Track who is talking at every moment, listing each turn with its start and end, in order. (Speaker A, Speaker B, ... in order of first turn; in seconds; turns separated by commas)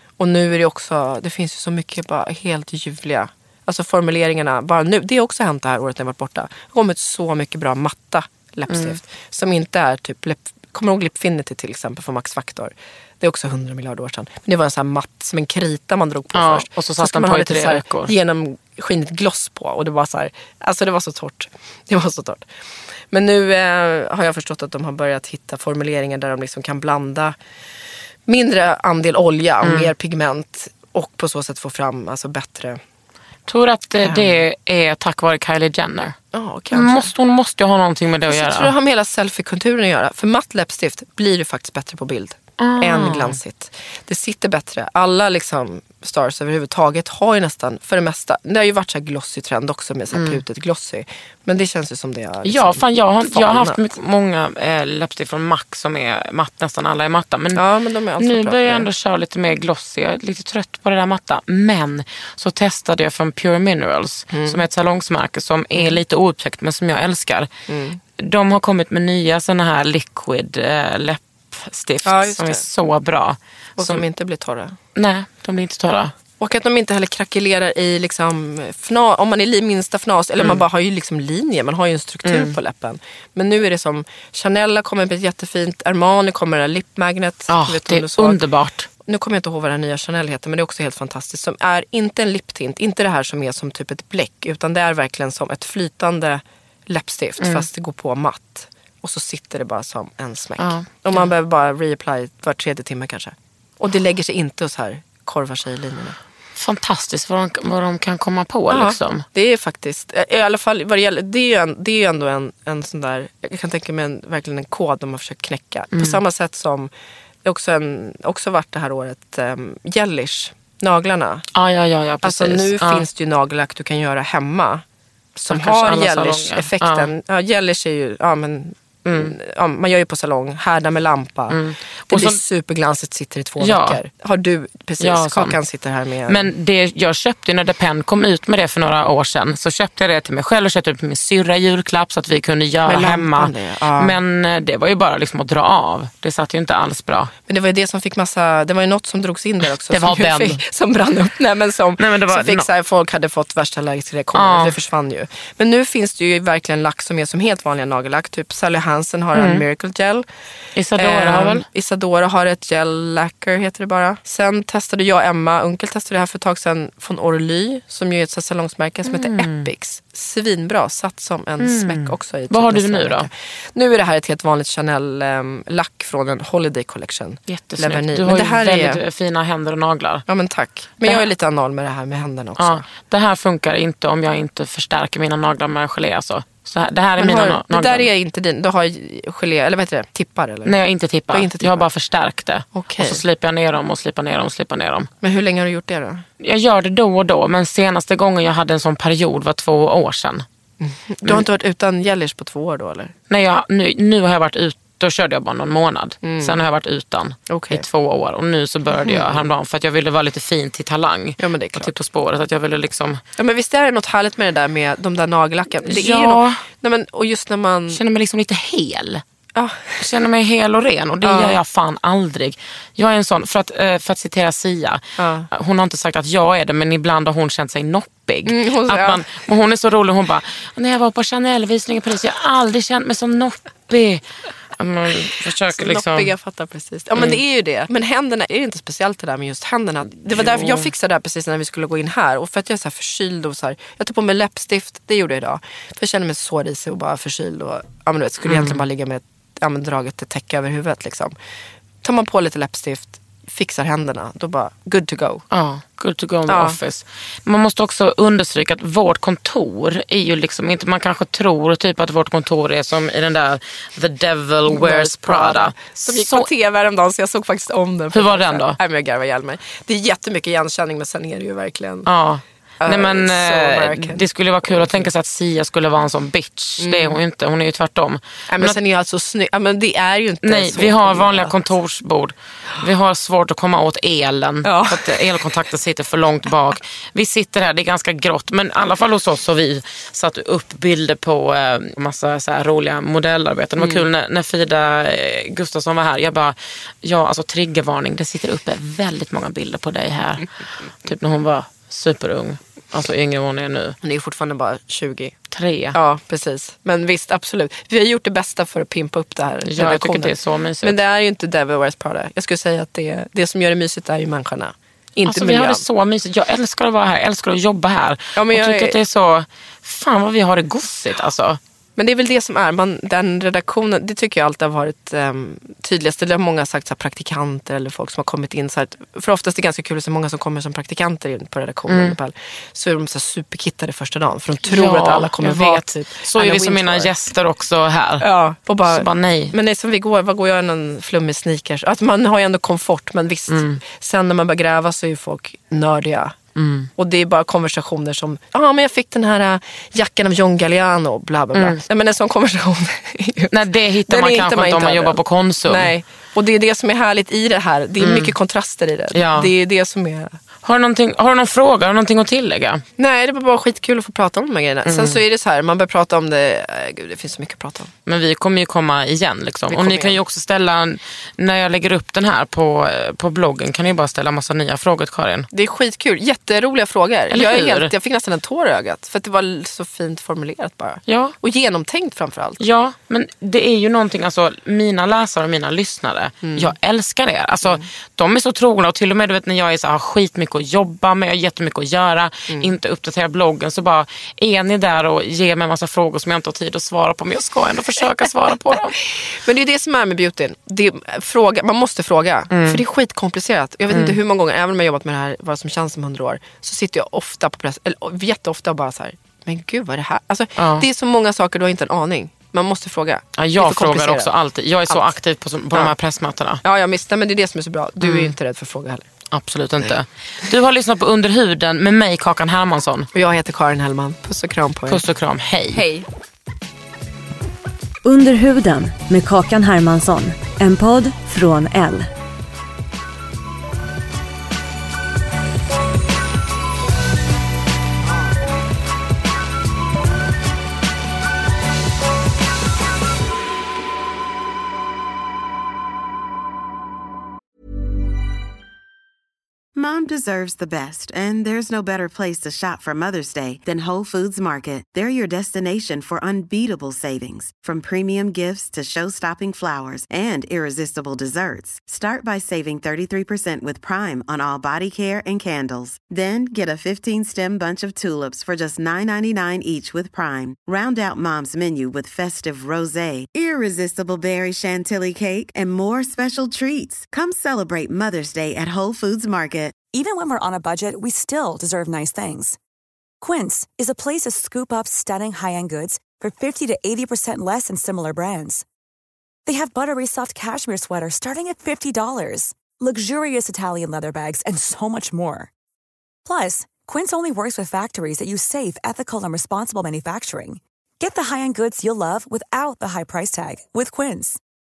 Speaker A: 0.2-22.5, Speaker B: 8.7-9.0, Speaker B: 16.3-18.1, Speaker A: 23.1-27.4, Speaker A: 28.2-32.8, Speaker B: 29.6-29.9, Speaker B: 33.5-36.1, Speaker A: 34.0-34.4, Speaker A: 36.3-37.1, Speaker B: 36.7-38.7, Speaker A: 38.3-53.8, Speaker B: 42.6-43.4, Speaker B: 50.1-50.4, Speaker B: 52.4-57.6, Speaker A: 57.5-58.9, Speaker B: 58.2-67.5, Speaker A: 64.3-64.6, Speaker A: 65.7-66.0, Speaker A: 67.7-68.0, Speaker B: 68.2-74.0, Speaker A: 72.0-72.6, Speaker A: 73.8-74.8, Speaker B: 75.0-76.1, Speaker A: 76.4-88.4, Speaker B: 82.2-82.5, Speaker B: 87.5-88.9, Speaker A: 89.0-106.2, Speaker B: 97.4-97.7, Speaker B: 100.6-101.2, Speaker B: 106.5-109.2, Speaker A: 108.7-116.9, Speaker B: 115.9-116.2, Speaker A: 117.4-121.5, Speaker B: 121.5-123.0, Speaker A: 122.2-124.8, Speaker A: 125.3-136.5, Speaker B: 125.5-127.1, Speaker B: 129.0-129.3, Speaker B: 131.5-132.4, Speaker B: 133.6-134.0, Speaker B: 135.0-135.6, Speaker B: 136.3-147.3, Speaker A: 142.8-144.2, Speaker A: 147.5-160.2, Speaker B: 149.9-150.6, Speaker B: 152.0-152.7, Speaker B: 154.3-154.8, Speaker B: 159.3-159.6, Speaker B: 160.7-161.7, Speaker A: 160.9-179.0, Speaker B: 169.1-169.7, Speaker B: 171.6-173.3, Speaker B: 177.5-180.2, Speaker A: 180.3-182.8, Speaker B: 182.6-188.1, Speaker A: 187.2-190.7, Speaker B: 190.7-195.1, Speaker A: 191.3-191.9, Speaker A: 192.7-193.2, Speaker A: 195.2-196.2, Speaker B: 196.4-200.4, Speaker A: 200.8-203.1, Speaker B: 203.3-213.2, Speaker A: 206.2-206.6, Speaker A: 207.5-207.8, Speaker A: 208.9-209.4, Speaker A: 211.4-211.9, Speaker A: 213.3-218.0, Speaker B: 215.8-216.6, Speaker B: 217.9-219.2, Speaker A: 219.5-220.0, Speaker B: 220.0-234.2, Speaker A: 221.2-221.6, Speaker A: 225.2-225.5, Speaker A: 228.4-229.3, Speaker B: 234.8-236.3, Speaker A: 235.7-251.3, Speaker B: 240.3-240.9, Speaker B: 248.4-248.8, Speaker A: 252.0-255.4, Speaker B: 255.5-266.5, Speaker A: 256.5-256.8, Speaker A: 264.7-272.1, Speaker B: 268.1-268.8, Speaker B: 272.1-278.8, Speaker A: 272.8-275.1, Speaker A: 276.8-277.2, Speaker A: 278.5-281.7, Speaker B: 280.4-304.0, Speaker A: 284.6-285.3, Speaker A: 293.8-294.0, Speaker A: 304.0-305.4, Speaker B: 305.5-305.9, Speaker A: 305.9-315.9, Speaker B: 309.6-311.0, Speaker B: 315.2-321.6, Speaker A: 318.4-319.0, Speaker A: 321.9-337.1, Speaker B: 331.9-332.1, Speaker B: 334.7-338.2, Speaker A: 338.2-346.4, Speaker B: 338.9-339.5, Speaker B: 343.5-343.8, Speaker B: 346.6-346.9, Speaker A: 347.0-360.4, Speaker B: 351.5-351.8, Speaker B: 353.5-355.9, Speaker B: 358.0-358.3, Speaker B: 359.1-359.5, Speaker B: 360.6-362.8, Speaker A: 363.0-367.9, Speaker B: 364.8-365.2, Speaker B: 368.1-375.5, Speaker A: 369.7-370.2, Speaker A: 375.5-382.6, Speaker B: 377.3-377.9, Speaker B: 381.1-381.4, Speaker B: 382.6-399.0, Speaker A: 386.4-386.7, Speaker A: 392.5-392.7, Speaker A: 398.5-414.3, Speaker B: 402.5-402.8, Speaker B: 403.9-404.1, Speaker B: 410.6-410.8, Speaker B: 413.4-416.6, Speaker A: 414.9-415.1, Speaker A: 416.6-419.1, Speaker B: 418.0-418.3, Speaker B: 419.3-423.1, Speaker A: 423.1-425.0, Speaker B: 424.9-425.8, Speaker A: 425.7-426.1, Speaker C: 428.0-432.1, Speaker D: 449.7-479.8, Speaker E: 479.9-482.6, Speaker E: 483.2-488.6, Speaker E: 489.4-495.5, Speaker E: 496.2-504.4